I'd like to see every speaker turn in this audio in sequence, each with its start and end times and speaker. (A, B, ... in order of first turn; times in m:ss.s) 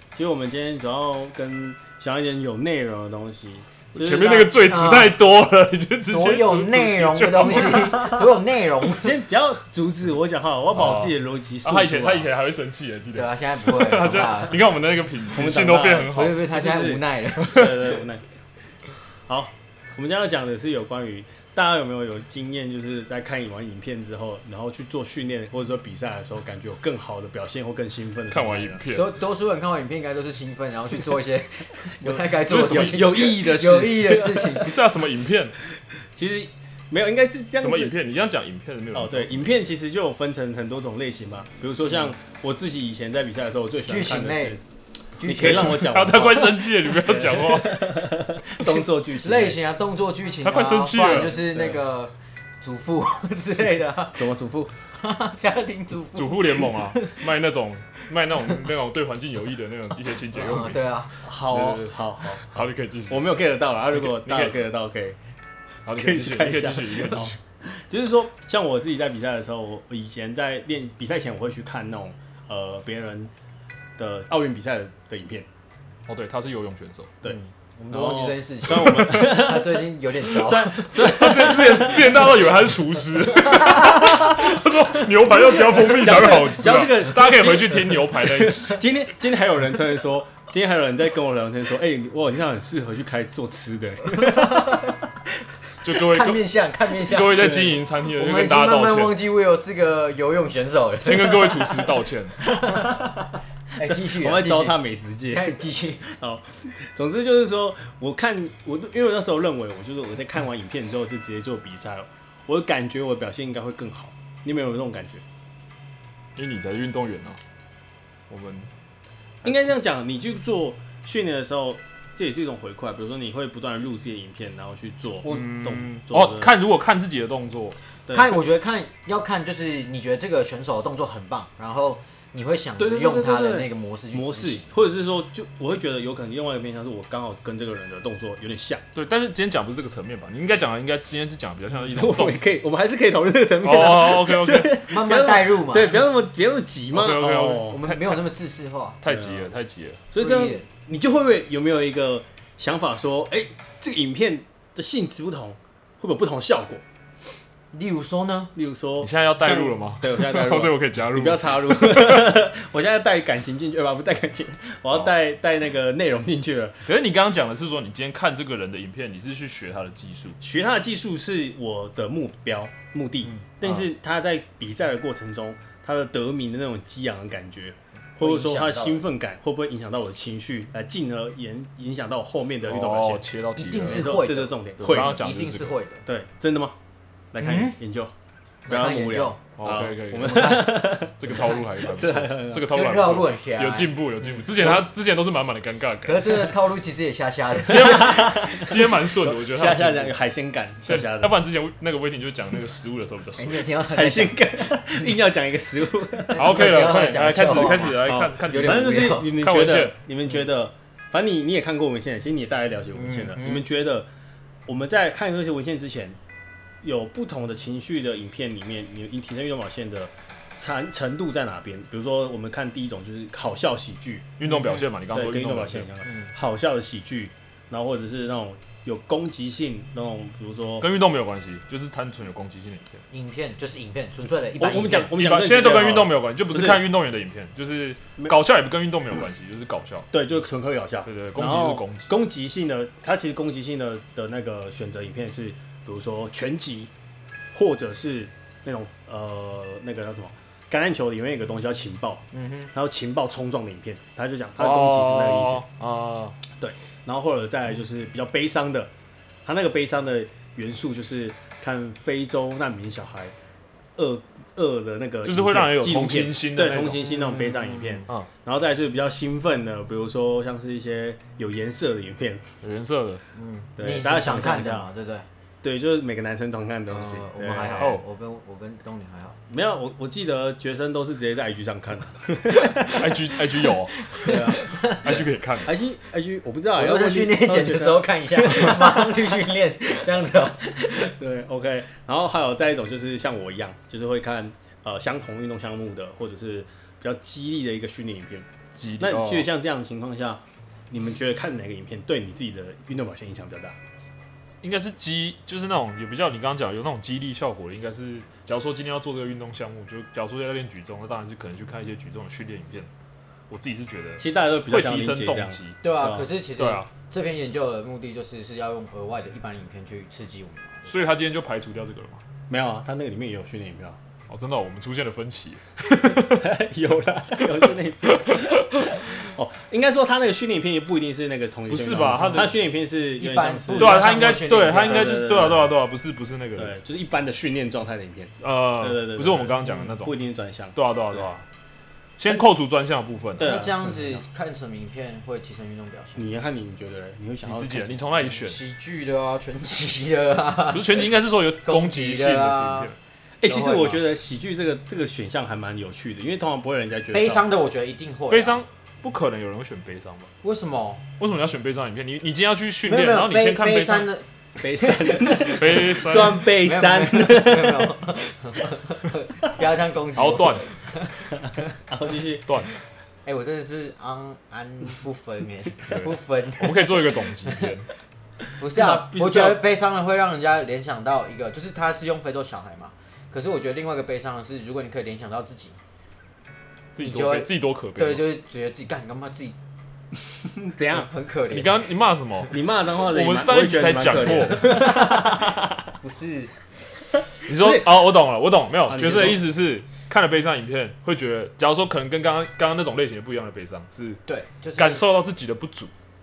0:00.1-0:04.6 A
0:04.0-0:08.0 B
0:04.6-0:05.2 C
0:06.1-0:09.2 C
0:07.9-0:08.2 A
0:08.9-0:12.3 A
0:10.7-0:16.4 B
0:13.1-0:14.6 C
0:15.3-0:18.2 A
0:16.0-0:17.8 C
0:17.4-0:17.8 B
0:19.3-0:28.8 A
0:28.3-0:29.2 B
0:28.9-0:34.8 C
0:32.0-0:34.6 A
0:32.5-0:33.4 B
0:34.5-0:35.6 B
0:36.2-0:38.0 A
0:37.6-0:39.7 B
0:38.9-0:44.6 A
0:43.8-0:44.6 C
0:45.2-0:45.9 C
0:45.2-0:49.6 A
0:45.3-0:48.1 B
0:48.6-0:54.3 C
0:50.4-0:51.4 B
0:51.4-0:51.8 A
0:54.2-0:54.7 A
0:55.0-0:57.2 C
0:56.1-1:03.3 B
1:00.3-1:01.1 C
1:01.2-1:05.2 A
1:03.9-1:04.5 B
1:05.8-1:07.3 B
1:05.9-1:13.3 A
1:14.0-1:15.5 A
1:16.1-1:17.1 B
1:17.2-1:22.5 A
1:17.2-1:21.0 C
1:18.8-1:19.5 B
1:20.9-1:28.9 B
1:23.6-1:35.1 A
1:34.2-1:34.9 C
1:35.8-1:39.2 B
1:35.9-1:43.0 C
1:37.4-1:37.6 A
1:41.0-1:42.5 B
1:42.6-1:43.3 A
1:43.8-1:44.8 C
1:44.0-1:55.2 A
1:45.3-1:46.0 C
1:56.4-1:57.4 B
1:58.3-1:58.7 B
1:59.4-2:06.5 A
2:05.2-2:07.8 B
2:08.1-2:08.4 A
2:08.1-2:14.6 C
2:12.8-2:18.8 A
2:19.0-2:22.4 B
2:21.9-2:27.8 A
2:23.6-2:24.8 B
2:24.8-2:26.0 C
2:26.9-2:28.2 B
2:27.6-2:29.0 C
2:29.0-2:30.0 B
2:29.0-2:29.5 A
2:30.1-2:36.8 A
2:30.2-2:30.7 C
2:37.7-2:38.5 C
2:38.6-2:46.8 A
2:39.0-2:42.3 B
2:46.9-2:50.4 B
2:50.4-3:03.2 A
2:53.5-2:53.9 B
2:58.2-2:59.0 C
3:02.7-3:04.1 B
3:03.6-3:06.0 C
3:03.9-3:05.2 A
3:04.8-3:05.8 B
3:06.1-3:06.8 A
3:07.3-3:08.1 A
3:07.4-3:07.8 C
3:08.7-3:09.4 C
3:08.7-3:12.7 A
3:09.6-3:16.5 B
3:10.2-3:10.9 C
3:12.7-3:14.0 C
3:16.1-3:18.3 C
3:17.7-3:20.1 B
3:17.7-3:21.4 A
3:20.9-3:23.6 B
3:23.4-3:24.8 C
3:23.9-3:26.6 A
3:26.3-3:29.3 C
3:26.3-3:30.0 B
3:27.4-3:34.1 A
3:32.9-3:33.7 C
3:34.7-3:36.2 A
3:36.8-3:44.3 A
3:44.4-3:45.9 B
3:44.5-3:44.8 C
3:45.1-3:50.9 A
3:50.8-3:53.0 B
3:53.1-3:55.1 C
3:54.6-3:56.9 A
3:55.1-4:00.1 B
4:00.1-4:06.9 A
4:01.0-4:02.1 B
4:07.5-4:15.6 A
4:12.3-4:12.7 C
4:14.6-4:16.4 B
4:16.5-4:18.9 A
4:19.4-4:23.3 A
4:24.0-4:32.5 A
4:25.2-4:27.0 B
4:27.0-4:28.0 C
4:32.6-4:33.2 B
4:33.3-4:35.3 C
4:33.8-4:34.9 A
4:35.6-4:37.9 A
4:36.9-4:39.4 C
4:39.5-4:43.2 A
4:42.9-4:45.8 B
4:44.0-4:45.0 C
4:44.2-4:49.3 A
4:46.8-4:51.1 C
4:50.9-4:58.5 A
4:58.8-4:59.5 B
4:59.0-5:03.8 A
5:04.6-5:12.9 B
5:13.5-5:15.8 B
5:14.2-5:16.2 A
5:15.8-5:20.9 C
5:16.6-5:16.9 B
5:20.9-5:22.2 B
5:22.5-5:24.0 A
5:24.3-5:26.4 B
5:26.2-5:35.8 A
5:28.2-5:28.6 B
5:31.7-5:32.5 B
5:33.2-5:35.5 C
5:33.8-5:36.8 B
5:36.6-5:41.4 A
5:38.4-5:40.2 B
5:40.8-5:41.3 B
5:42.2-5:43.6 B
5:43.4-5:44.2 A
5:43.4-5:46.3 C
5:46.2-5:48.3 A
5:47.4-5:48.6 B
5:48.3-5:52.9 C
5:50.7-5:53.0 B
5:53.4-5:57.5 A
5:53.5-5:54.0 C
5:57.1-5:58.6 C
5:58.3-6:00.3 B
6:00.4-6:01.0 C
6:01.2-6:04.1 B
6:02.9-6:11.1 C
6:04.6-6:08.0 A
6:05.4-6:06.4 B
6:10.2-6:10.6 B
6:11.9-6:12.5 A
6:13.2-6:17.7 C
6:15.9-6:17.9 B
6:18.6-6:25.8 C
6:18.6-6:19.6 A
6:26.9-6:28.2 B
6:27.0-6:29.6 C
6:30.4-6:31.1 A
6:30.9-6:31.8 C
6:31.5-6:34.8 B
6:32.5-6:35.9 A
6:34.8-6:35.3 C
6:36.0-6:36.9 C
6:37.4-6:44.2 B
6:37.5-6:37.8 A
6:38.8-6:39.4 A
6:44.3-6:45.0 C
6:44.8-6:45.9 B